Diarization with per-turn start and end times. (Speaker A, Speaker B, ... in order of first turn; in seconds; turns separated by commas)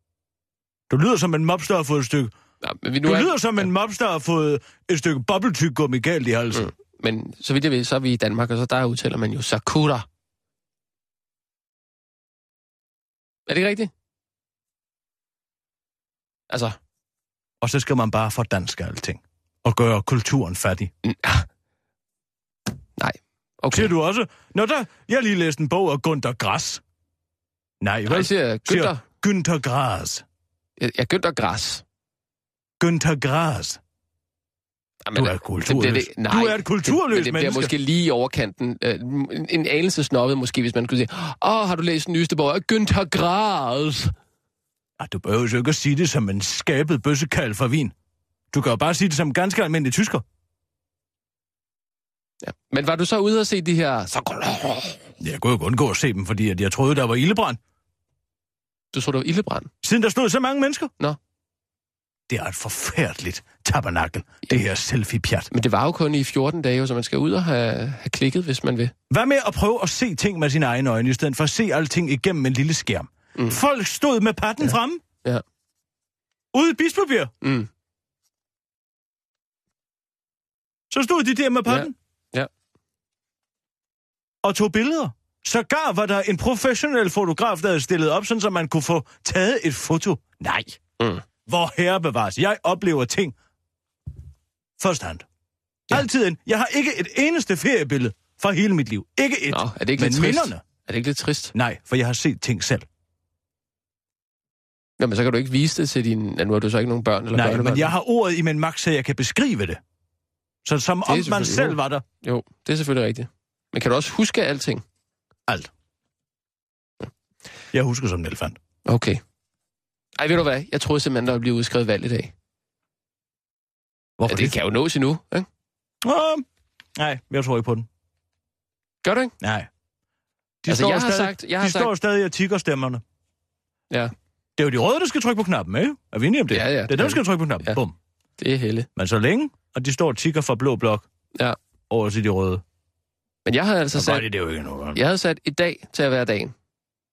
Speaker A: 0.9-2.3, Speaker B: 2.6-3.7, Speaker A: 3.0-6.7, Speaker B: 6.5-10.1, Speaker B: 13.5-13.9, Speaker B: 16.5-16.8, Speaker A: 17.6-20.9, Speaker B: 21.0-21.5, Speaker B: 23.0-23.9, Speaker A: 23.7-26.8, Speaker A: 27.8-30.2, Speaker B: 28.1-29.0, Speaker B: 30.8-31.8, Speaker A: 32.8-33.8, Speaker B: 35.1-44.1, Speaker A: 35.1-37.8, Speaker A: 45.0-47.9, Speaker A: 48.5-50.2, Speaker B: 52.4-55.0, Speaker A: 55.2-57.6, Speaker B: 58.9-59.7, Speaker A: 59.8-60.9, Speaker A: 62.3-65.5, Speaker B: 65.5-68.9, Speaker A: 69.1-75.0, Speaker B: 74.6-75.4, Speaker A: 76.5-77.3, Speaker B: 77.4-77.7, Speaker A: 80.9-81.9, Speaker B: 81.7-82.5, Speaker A: 84.4-90.8, Speaker A: 91.5-93.3, Speaker A: 94.8-95.2, Speaker A: 95.9-100.6, Speaker B: 99.5-101.5, Speaker A: 101.5-102.9, Speaker B: 105.0-107.9, Speaker A: 107.3-109.8, Speaker A: 110.7-112.0, Speaker B: 111.1-114.8, Speaker A: 117.7-118.6, Speaker B: 118.9-119.2, Speaker B: 120.2-122.3, Speaker A: 124.2-124.6, Speaker B: 124.3-125.5, Speaker A: 126.0-126.5, Speaker A: 127.0-127.9, Speaker B: 129.0-129.3, Speaker A: 129.4-129.7, Speaker A: 130.6-133.0, Speaker B: 130.7-131.9, Speaker A: 134.6-137.9, Speaker B: 136.5-137.8, Speaker B: 138.4-138.9, Speaker A: 139.0-141.1, Speaker A: 141.9-142.6, Speaker B: 143.5-144.3, Speaker A: 143.9-145.0, Speaker B: 144.9-146.5